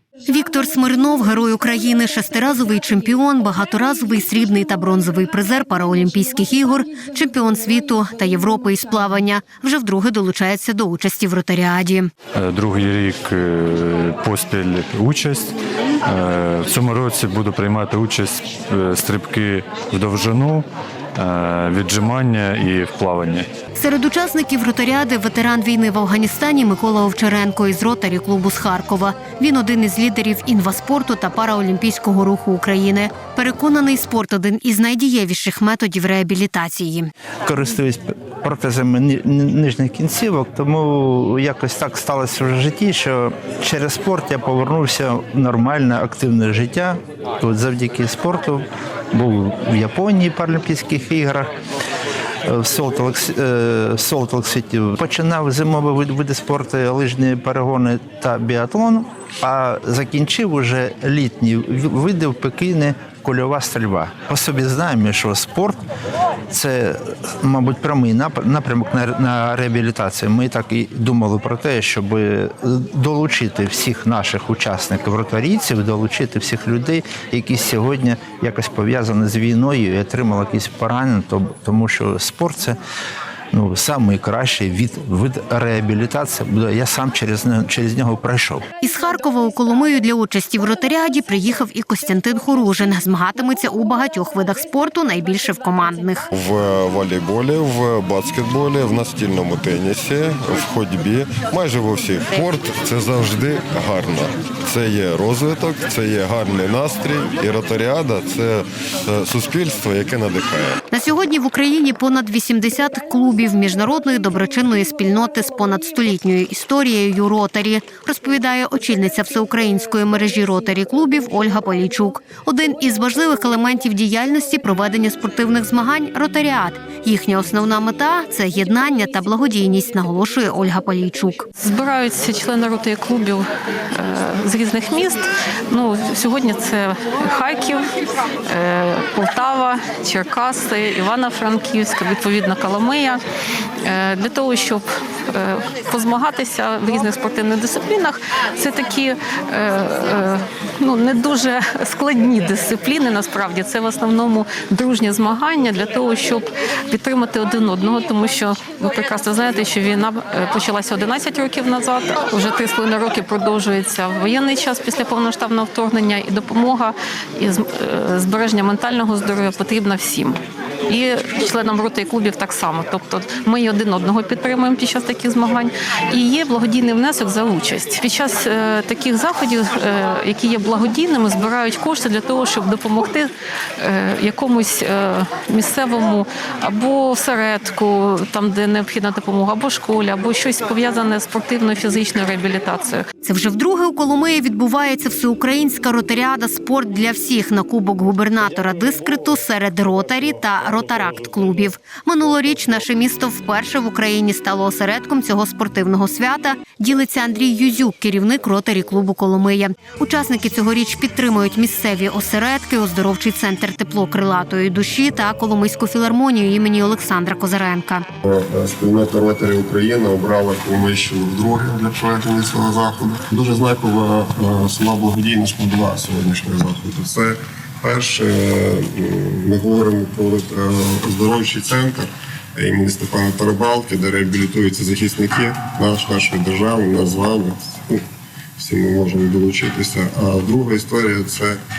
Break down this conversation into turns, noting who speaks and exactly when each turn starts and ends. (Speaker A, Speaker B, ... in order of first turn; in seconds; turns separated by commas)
Speaker A: 0.3-12.1, Speaker B: 12.3-15.5, Speaker B: 16.0-23.5, Speaker A: 23.8-37.1, Speaker C: 37.4-51.6, Speaker C: 52.5-65.8, Speaker C: 66.5-82.8, Speaker C: 83.5-88.7, Speaker A: 88.8-96.3, Speaker D: 96.3-110.8, Speaker A: 110.9-131.4, Speaker E: 131.6-137.9, Speaker E: 138.5-143.2, Speaker E: 143.8-193.0, Speaker A: 193.2-218.1, Speaker F: 218.2-238.0, Speaker F: 238.6-241.6